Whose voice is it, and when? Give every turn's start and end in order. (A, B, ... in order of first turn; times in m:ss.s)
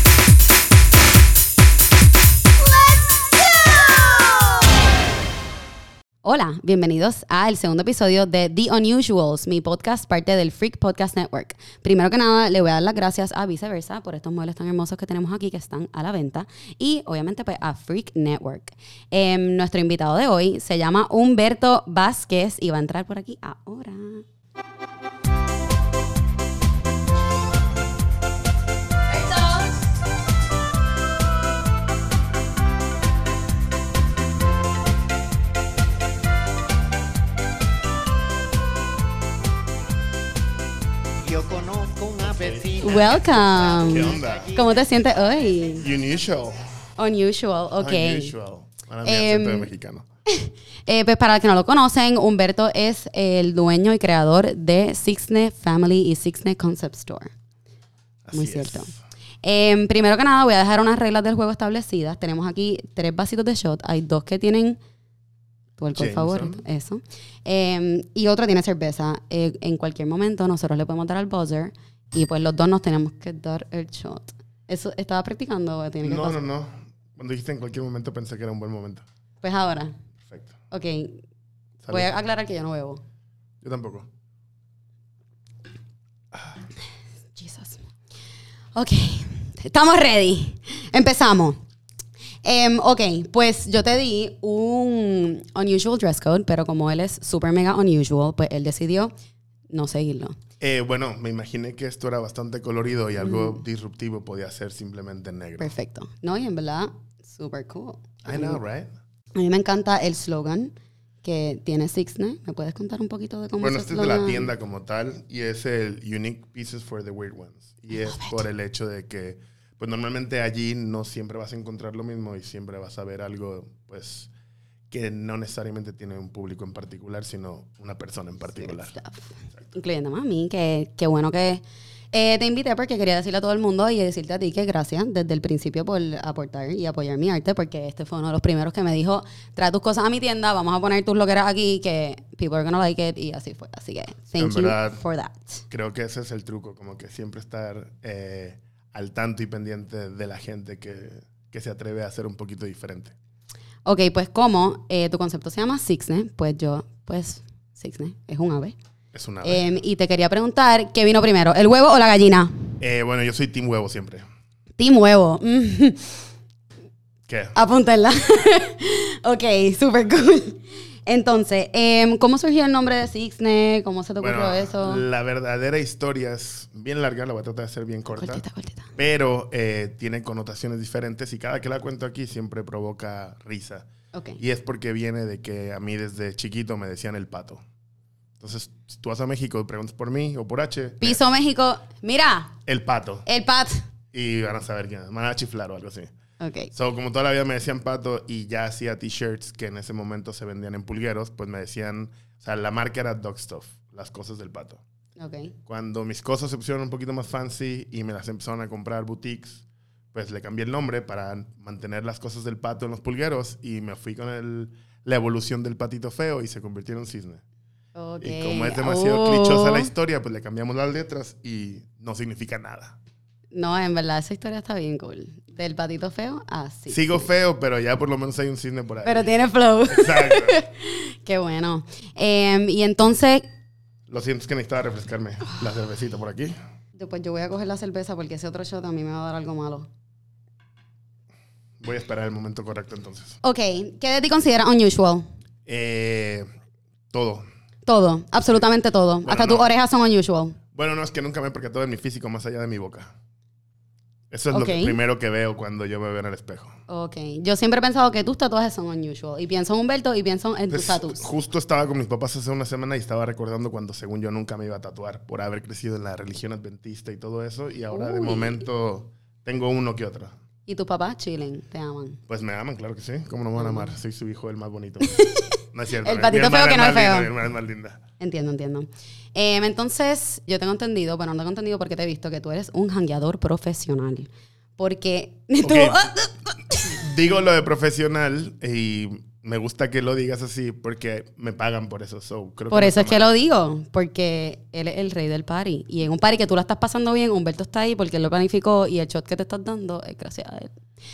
0:02.6-0:04.5 A
0:06.2-0:24.2 B
0:29.2-0:29.6 B
0:41.2-0:44.6 C
0:42.2-0:44.5 D
0:42.8-0:45.9 B
0:45.8-0:46.6 D
0:47.0-0:48.3 B
0:47.8-0:50.0 D
0:49.0-0:49.7 B
0:50.3-0:57.3 B
0:58.2-0:59.0 D
0:58.3-0:58.9 B
0:59.4-1:04.8 B
1:05.8-1:16.4 B
1:05.9-1:06.6 D
1:16.0-1:19.0 D
1:19.4-1:19.9 B
1:20.2-1:20.6 D
1:20.7-1:21.2 B
1:21.8-1:22.1 D
1:21.9-1:23.0 B
1:23.6-1:24.1 D
1:27.3-1:27.9 B
1:28.7-1:31.6 B
1:32.4-1:39.1 B
1:39.7-1:40.4 B
1:40.6-1:45.7 D
1:43.2-1:43.6 B
1:45.6-1:48.6 B
1:48.2-1:48.9 D
1:49.3-1:54.5 B
1:53.6-2:04.3 D
1:57.9-1:58.4 B
2:04.9-2:09.0 D
2:08.5-2:25.6 B
2:24.4-2:25.0 D
2:25.7-2:33.1 D
2:33.8-2:38.8 B
2:39.1-2:39.7 D
2:39.4-2:42.5 B
2:42.8-2:44.2 D
2:44.8-2:46.2 B
2:47.3-2:47.6 D
2:47.6-2:55.0 B
2:54.2-2:58.4 D
2:58.1-2:58.9 B
2:59.0-3:03.9 D
3:04.1-3:04.4 B
3:04.4-3:07.6 D
3:08.4-3:11.2 D
3:11.0-3:12.6 B
3:12.7-3:13.3 D
3:13.3-3:13.8 B
3:14.1-3:16.1 D
3:16.4-3:16.7 B
3:16.7-3:24.8 D
3:25.2-3:25.6 B
3:25.7-3:37.4 D
3:38.0-3:39.9 B
3:38.2-3:43.0 D
3:43.5-3:47.3 B
3:46.9-3:49.3 D
3:49.0-3:53.5 B
3:49.9-3:50.6 D
3:54.1-3:56.6 D
3:57.0-3:59.9 B
4:01.8-4:03.4 D
4:03.4-4:05.2 B
4:05.7-4:06.5 D
4:07.1-4:07.4 D
4:07.8-4:10.6 B
4:09.2-4:09.7 D
4:10.7-4:13.1 D
4:14.3-4:16.7 D
4:14.5-4:15.0 B
4:16.9-4:21.2 B
4:20.7-4:30.3 D
4:27.9-4:28.6 B
4:30.6-4:32.2 B
4:32.3-4:35.2 D
4:33.6-4:33.9 B
4:35.1-4:35.5 B
4:35.7-4:38.0 D
4:36.0-4:37.3 B
4:38.2-4:46.9 B
4:45.6-4:46.0 D
4:46.8-4:53.2 D
4:52.7-5:00.8 B